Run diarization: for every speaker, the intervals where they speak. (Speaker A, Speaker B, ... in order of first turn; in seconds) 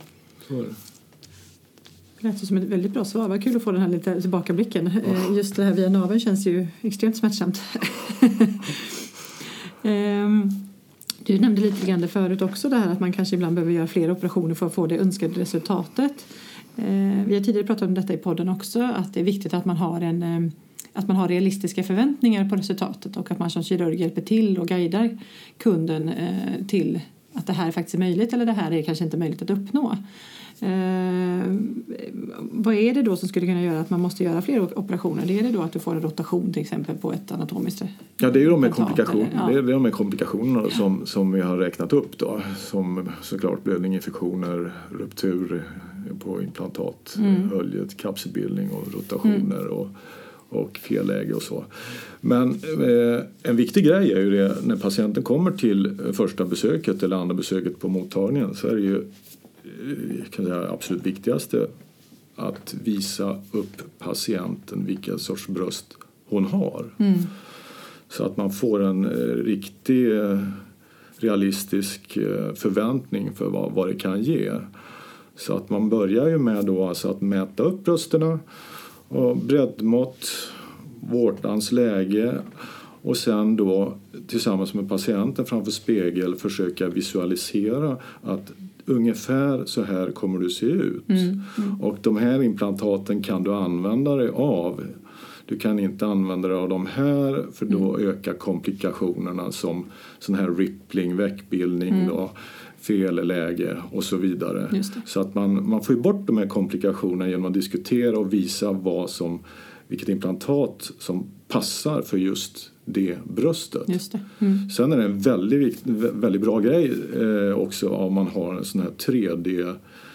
Speaker A: 0.4-0.8, 38.2-49.9, 50.5-59.1, 59.6-61.7, 62.4-67.0, 68.1-70.6, 71.2-74.7, 75.3-78.4, 79.1-114.0, 114.6-119.8
Speaker B: 2.2-9.0, 9.7-10.7, 11.2-30.0, 30.6-39.6, 47.2-47.5, 67.0-67.3, 91.1-91.8, 104.7-105.0, 113.9-114.7